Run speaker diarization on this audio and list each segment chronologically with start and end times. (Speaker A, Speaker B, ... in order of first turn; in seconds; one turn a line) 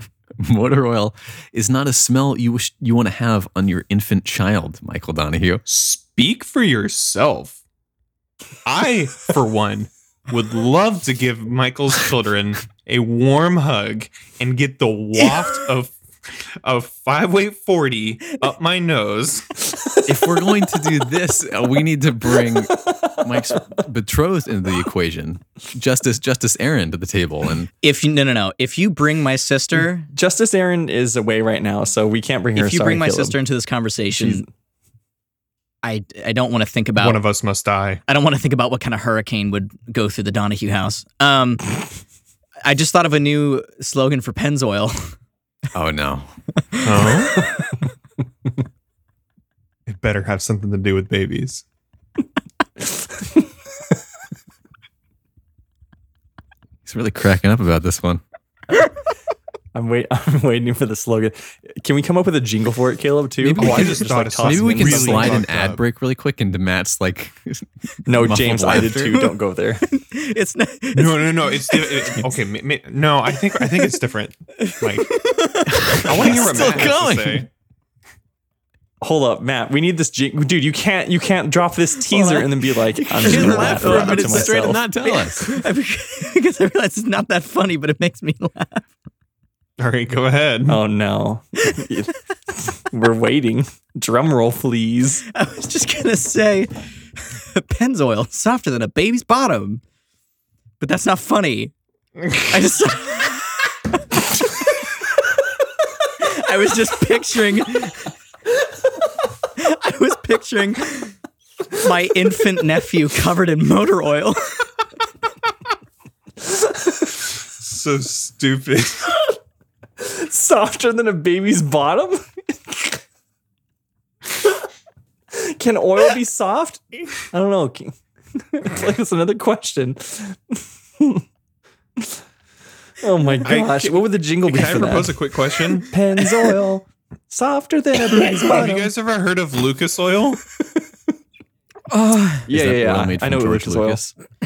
Speaker A: 0.4-5.6
Speaker B: 5.7-7.6
Speaker B: 8.7-19.7
Speaker A: 20.0-27.7
Speaker C: 22.9-23.8
Speaker D: 27.8-30.1
Speaker C: 30.1-33.4
Speaker D: 32.6-34.5
Speaker C: 34.1-34.4
Speaker D: 35.8-37.2
Speaker B: 37.0-38.0
Speaker D: 38.1-41.7
Speaker D: 42.6-45.1
Speaker A: 45.7-46.3
Speaker B: 46.8-47.5
Speaker B: 49.9-51.6
Speaker A: 56.9-58.2
Speaker C: 59.7-65.5
Speaker A: 63.4-69.2
Speaker B: 63.6-65.8
Speaker C: 68.1-69.8
Speaker D: 68.7-69.3
Speaker D: 69.8-72.2
Speaker B: 71.0-75.2
Speaker D: 74.6-76.7
Speaker A: 75.7-77.5
Speaker B: 76.0-77.5
Speaker C: 79.0-84.8
Speaker D: 82.1-88.8
Speaker A: 83.2-85.6
Speaker B: 89.8-90.8
Speaker C: 90.7-95.2
Speaker D: 95.3-96.7
Speaker D: 97.4-99.8
Speaker D: 100.8-101.7
Speaker D: 102.3-103.7
Speaker D: 106.2-108.1
Speaker D: 109.5-111.2
Speaker D: 111.7-114.6
Speaker B: 117.4-119.2
Speaker C: 120.0-123.0
Speaker C: 125.3-131.2
Speaker C: 133.0-135.2
Speaker B: 133.4-136.0
Speaker C: 135.8-138.9
Speaker B: 138.3-140.4
Speaker D: 141.9-142.5
Speaker C: 142.5-144.1
Speaker A: 142.5-144.1